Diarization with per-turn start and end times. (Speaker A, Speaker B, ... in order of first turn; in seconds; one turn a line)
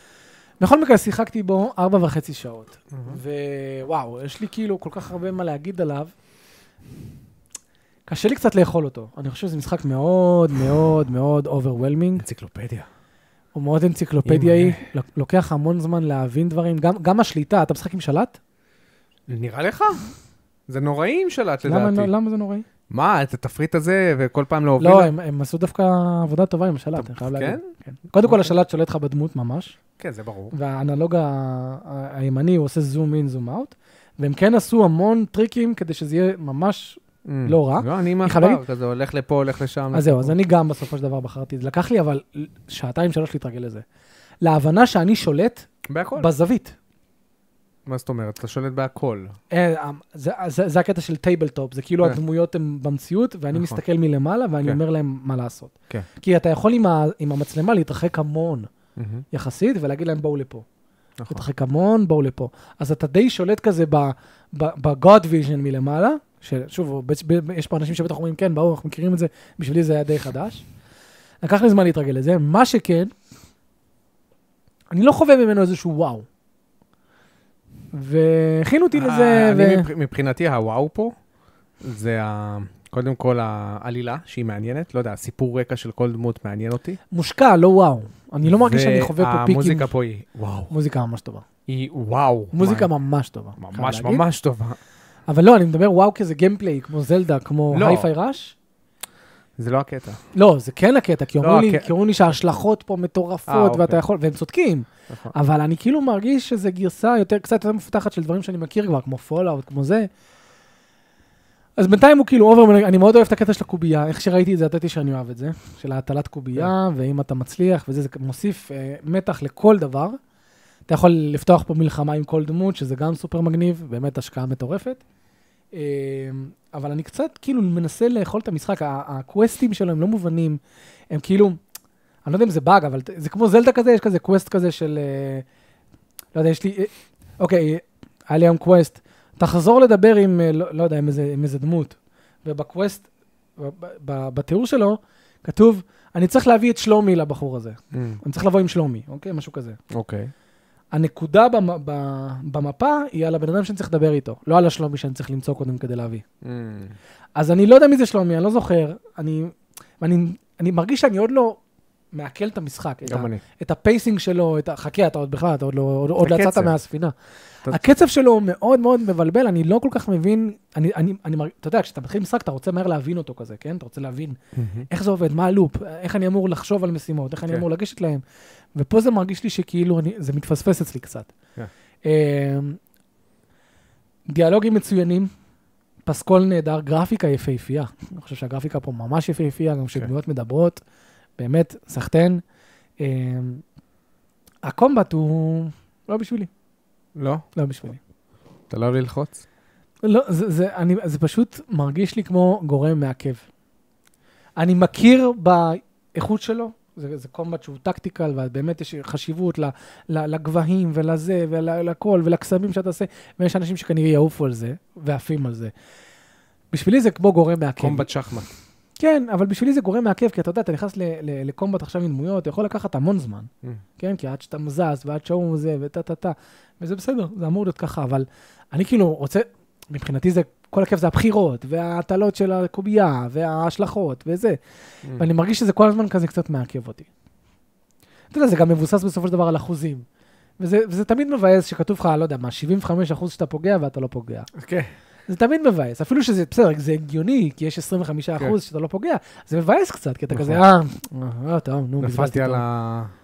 Speaker A: 0.6-6.1
Speaker B: 2.9-3.2
Speaker A: 8.1-12.2
Speaker B: 12.2-12.9
Speaker A: 13.6-18.4
Speaker B: 14.2-14.9
Speaker B: 19.3-20.0
Speaker B: 20.7-22.1
Speaker A: 21.6-22.6
Speaker B: 22.9-25.1
Speaker A: 24.8-29.8
Speaker B: 27.0-27.6
Speaker B: 28.2-28.5
Speaker B: 30.0-30.5
Speaker A: 30.5-38.6
Speaker B: 37.2-40.4
Speaker A: 39.9-43.8
Speaker A: 44.4-46.8
Speaker B: 45.9-46.3
Speaker B: 47.9-49.4
Speaker A: 49.5-58.7
Speaker B: 53.5-53.8
Speaker B: 59.0-59.2
Speaker A: 59.3-60.6
Speaker B: 61.2-61.4
Speaker A: 61.3-70.7
Speaker A: 71.4-73.1
Speaker A: 74.9-76.3
Speaker A: 77.9-79.9
Speaker B: 78.9-81.2
Speaker B: 81.8-87.0
Speaker A: 87.1-89.9
Speaker B: 88.5-90.7
Speaker A: 90.7-91.4
Speaker B: 91.7-92.9
Speaker A: 92.5-94.2
Speaker B: 93.6-94.8
Speaker A: 95.3-98.6
Speaker B: 97.7-98.1
Speaker B: 99.6-100.2
Speaker A: 100.3-110.1
Speaker B: 101.4-101.9
Speaker B: 103.5-104.0
Speaker B: 105.1-105.3
Speaker A: 111.8-120.2
Speaker A: 120.9-125.0
Speaker A: 125.7-130.6
Speaker A: 131.1-131.6
Speaker A: 132.3-135.4
Speaker A: 136.3-149.8
Speaker B: 147.9-148.2
Speaker B: 149.9-150.3
Speaker A: 150.9-156.2
Speaker B: 156.4-157.0
Speaker A: 157.4-161.6
Speaker A: 162.1-167.1
Speaker B: 163.1-163.4
Speaker B: 166.2-166.7
Speaker A: 167.7-178.2
Speaker B: 174.6-174.9
Speaker A: 178.8-181.3
Speaker A: 182.1-182.8
Speaker A: 184.3-185.3
Speaker A: 186.1-190.8
Speaker A: 191.4-192.4
Speaker A: 193.0-193.6
Speaker A: 194.7-196.5
Speaker B: 197.2-197.4
Speaker A: 197.6-198.0
Speaker B: 198.7-199.4
Speaker A: 200.0-203.4
Speaker A: 204.6-215.7
Speaker A: 216.7-218.1
Speaker B: 217.8-218.5
Speaker A: 219.0-234.6
Speaker A: 235.1-237.1
Speaker A: 238.3-240.1
Speaker A: 240.6-244.5
Speaker B: 244.6-244.9
Speaker A: 245.3-252.6
Speaker B: 250.3-250.6
Speaker B: 252.0-253.1